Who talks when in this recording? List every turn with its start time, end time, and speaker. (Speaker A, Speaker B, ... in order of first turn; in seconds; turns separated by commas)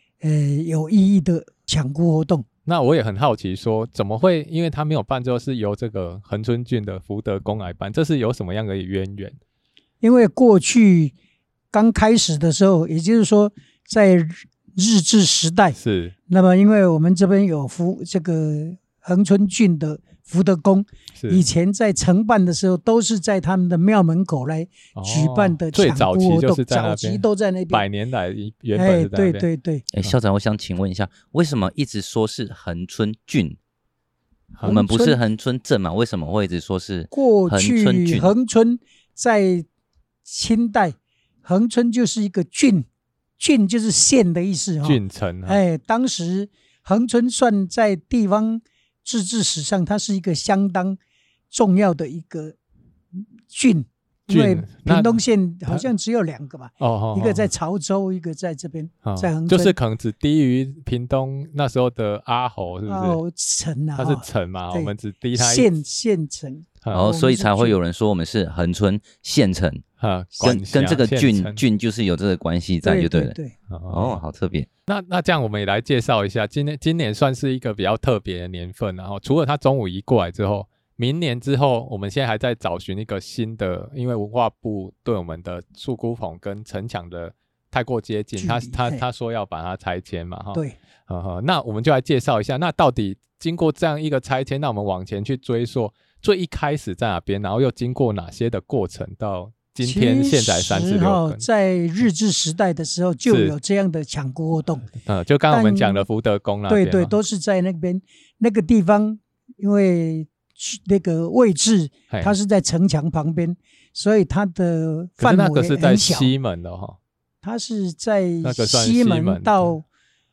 Speaker A: 0.2-2.5, Speaker B: 2.6-9.3, Speaker A: 10.0-11.1, Speaker A: 11.7-15.8, Speaker B: 15.8-16.1, Speaker A: 16.3-27.8, Speaker B: 21.2-21.4, Speaker B: 24.9-29.4, Speaker A: 28.7-29.8, Speaker C: 29.9-33.6, Speaker C: 34.6-38.3, Speaker A: 34.6-35.2, Speaker A: 37.1-39.6, Speaker A: 40.2-42.9, Speaker A: 43.4-51.0, Speaker B: 44.8-45.6, Speaker A: 51.5-52.5, Speaker A: 53.5-59.7, Speaker B: 54.3-55.2, Speaker B: 56.8-57.5, Speaker B: 59.0-63.2, Speaker A: 62.9-67.8, Speaker B: 64.0-65.7, Speaker C: 66.9-69.8, Speaker B: 70.0-71.6, Speaker C: 70.4-73.3, Speaker A: 72.8-73.5, Speaker B: 73.7-74.2, Speaker C: 73.9-74.7, Speaker B: 74.9-101.4, Speaker A: 88.4-89.0, Speaker A: 99.8-104.9, Speaker B: 103.3-103.5, Speaker B: 105.0-107.2, Speaker A: 105.5-106.0, Speaker A: 106.7-116.3, Speaker B: 115.2-117.0, Speaker A: 117.4-119.8, Speaker B: 118.4-119.7